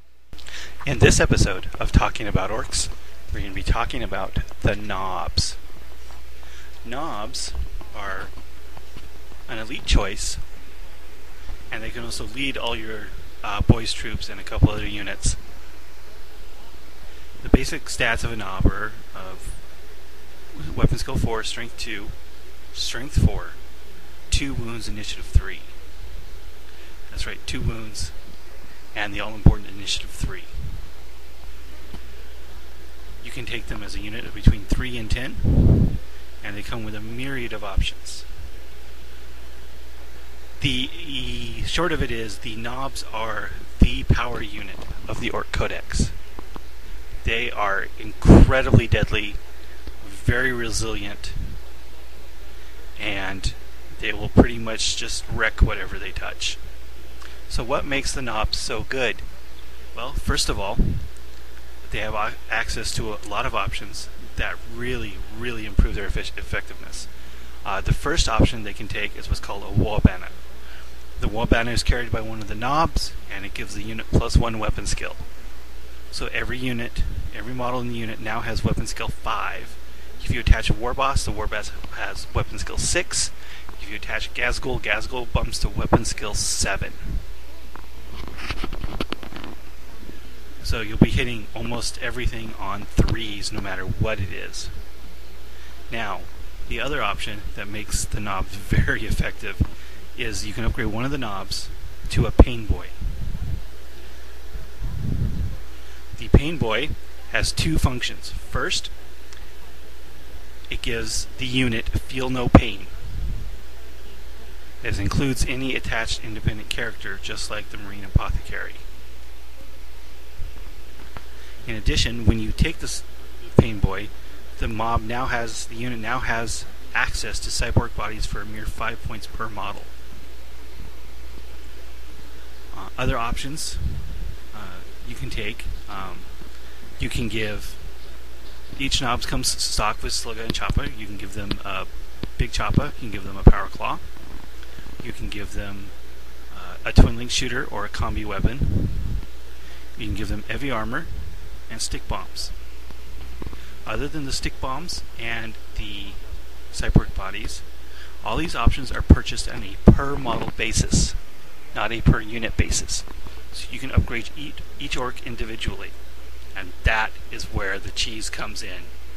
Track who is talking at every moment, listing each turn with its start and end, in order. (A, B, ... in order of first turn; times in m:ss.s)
0:00.8-0:05.6 A
0:06.8-0:08.3 A
0:09.5-0:10.4 A
0:11.7-0:15.4 A
0:17.4-0:19.6 A
0:20.5-0:22.2 A
0:22.7-0:23.6 A
0:24.3-0:25.8 A
0:27.1-0:28.2 A
0:28.9-0:30.9 A
0:33.2-0:38.3 A
0:40.6-0:46.2 A
0:47.2-0:49.4 A
0:50.0-0:51.6 A
0:53.0-0:56.6 A
0:57.5-0:59.3 A
0:59.9-1:01.1 A
1:01.8-1:07.1 A
1:07.6-1:10.4 A
1:11.2-1:15.2 A
1:16.1-1:27.2 A
1:30.6-1:34.8 A
1:35.9-1:43.2 A
1:46.1-1:48.9 A
1:50.7-1:53.0 A
1:54.8-1:58.8 A
2:01.6-2:09.9 A
2:12.7-2:16.4 A
2:17.0-2:17.8 A
2:18.8-2:24.1 A
2:25.0-2:26.0 A
2:26.5-2:29.2 A
2:30.0-2:32.5 A
2:33.9-2:37.7 A
2:38.2-2:41.2 A
2:41.7-2:46.0 A
2:46.5-2:48.9 A